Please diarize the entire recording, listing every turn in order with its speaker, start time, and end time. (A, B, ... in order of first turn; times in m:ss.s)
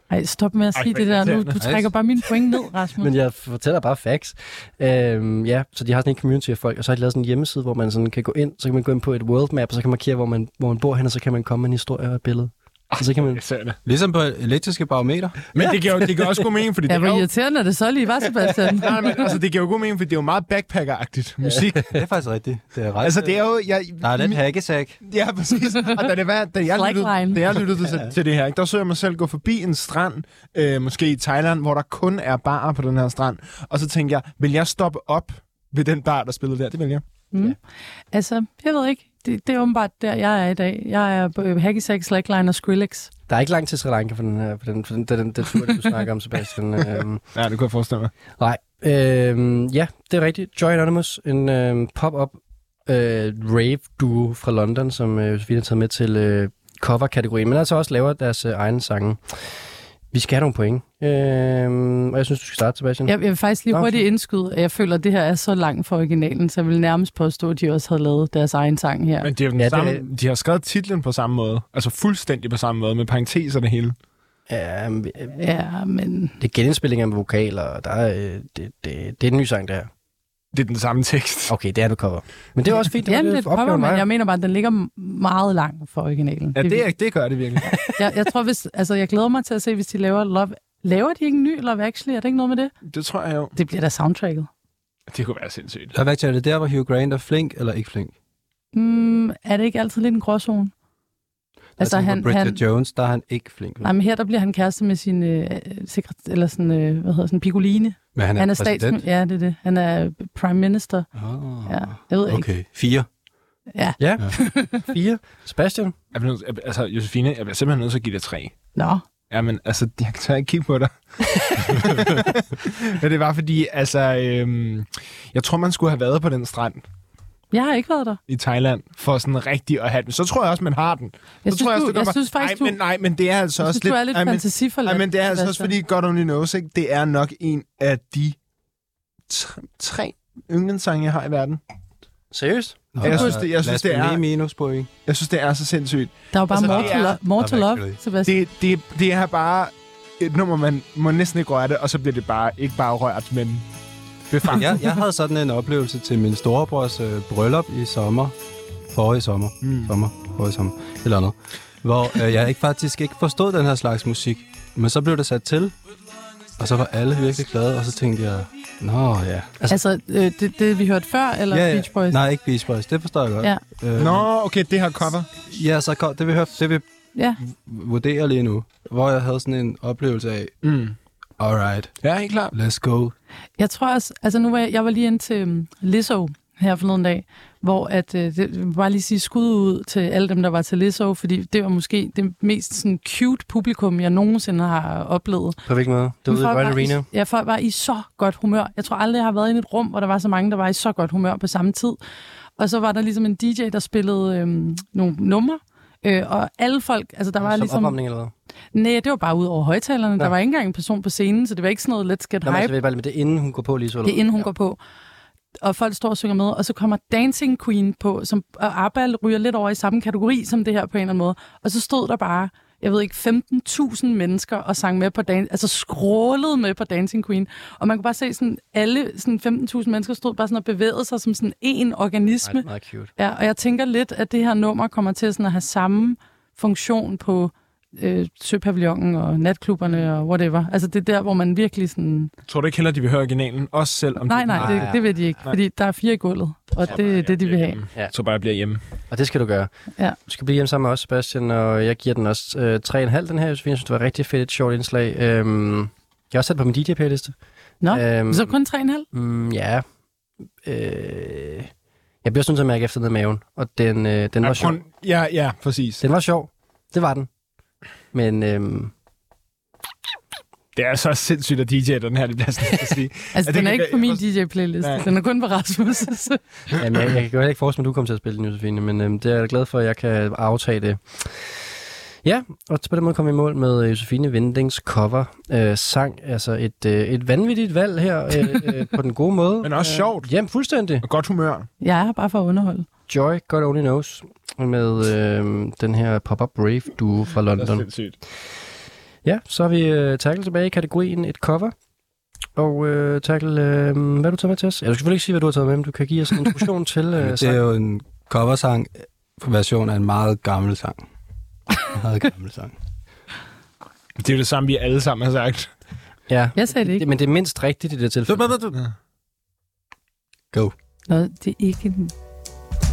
0:00.1-0:03.1 A
0:00.7-0:01.6 B
0:01.6-0:01.9 C
0:03.0-0:13.4 D
0:12.9-0:13.8 B
0:13.8-0:15.4 C
0:15.5-0:17.3 B
0:16.9-0:19.2 A
0:18.7-0:21.9 B
0:21.9-0:23.5 C
0:23.0-0:24.4 B
0:24.0-0:25.0 C
0:25.0-0:37.0 B
0:26.7-0:27.6 A
0:38.1-0:43.1 A
0:43.3-0:47.2 D
0:47.3-0:48.1 B
0:48.4-0:59.2 D
1:00.1-1:03.1 D
1:03.0-1:09.3 A
1:03.7-1:04.0 D
1:09.2-1:13.9 B
1:09.6-1:10.0 D
1:14.5-1:15.4 D
1:15.4-1:16.3 A
1:16.4-1:19.9 D
1:20.5-1:21.5 B
1:21.5-1:24.0 D
1:23.0-1:26.9 A
1:26.5-1:27.8 B
1:28.0-1:32.7 A
1:32.8-1:33.5 B
1:33.6-1:34.5 A
1:35.1-1:35.9 B
1:35.9-1:38.1 C
1:38.7-1:40.7 A
1:41.8-1:43.9 C
1:41.8-1:42.6 A
1:43.8-1:51.1 A
1:48.1-1:49.0 C
1:51.1-1:53.1 C
1:51.6-1:52.5 A
1:53.7-1:54.8 A
1:54.0-1:55.9 D
1:56.1-1:58.6 B
1:58.7-1:59.0 A
1:59.3-2:06.8 B
2:07.5-2:08.2 A
2:08.3-2:18.4 B
2:11.4-2:12.8 A
2:13.6-2:15.7 A
2:19.3-2:21.6 B
2:22.3-2:22.9 D
2:22.9-2:24.9 C
2:23.0-2:24.2 B
2:25.0-2:27.2 B
2:26.3-2:28.4 A
2:26.7-2:28.0 C
2:28.2-2:33.6 B
2:34.3-2:34.9 B
2:34.5-2:38.3 C
2:38.9-2:45.7 C
2:39.6-2:39.9 B
2:46.6-2:49.6 C
2:49.7-2:52.2 A
2:51.5-2:54.3 C
2:54.0-2:55.3 B
2:55.5-2:56.8 C
2:57.4-3:00.5 C
3:00.6-3:01.0 B
3:01.4-3:01.9 C
3:02.0-3:02.5 B
3:02.5-3:03.1 C
3:03.6-3:15.6 A
3:15.6-3:17.1 D
3:16.3-3:22.0 A
3:22.6-3:28.0 A
3:27.4-3:28.3 D
3:28.7-3:32.7 A
3:32.4-3:34.5 D
3:34.0-3:34.8 A
3:35.6-3:52.6 A
3:52.4-3:53.1 D
3:53.2-4:02.3 A
4:02.5-4:05.6 B
4:04.3-4:07.8 A
4:04.5-4:05.0 D
4:06.8-4:08.8 B
4:09.1-4:09.7 D
4:10.2-4:17.4 D
4:17.8-4:19.0 A
4:17.9-4:18.5 D
4:19.1-4:19.8 D
4:20.6-4:21.7 D
4:22.2-4:24.8 D
4:24.4-4:26.0 B
4:26.0-4:27.3 D
4:28.1-4:28.9 D
4:30.7-4:34.2 B
4:33.3-4:36.4 A
4:36.7-4:41.5 D
4:42.2-4:51.0 D
4:49.6-4:50.3 B
4:51.0-4:51.7 B
4:51.8-4:52.9 A
4:53.1-4:57.9 D
4:57.6-4:58.2 B
4:59.2-5:01.7 D
5:02.6-5:07.6 D
5:07.2-5:11.0 C
5:11.9-5:12.7 C
5:14.2-5:15.7 B
5:16.3-5:18.6 D
5:16.6-5:17.0 A
5:18.3-5:18.8 C
5:21.1-5:22.1 A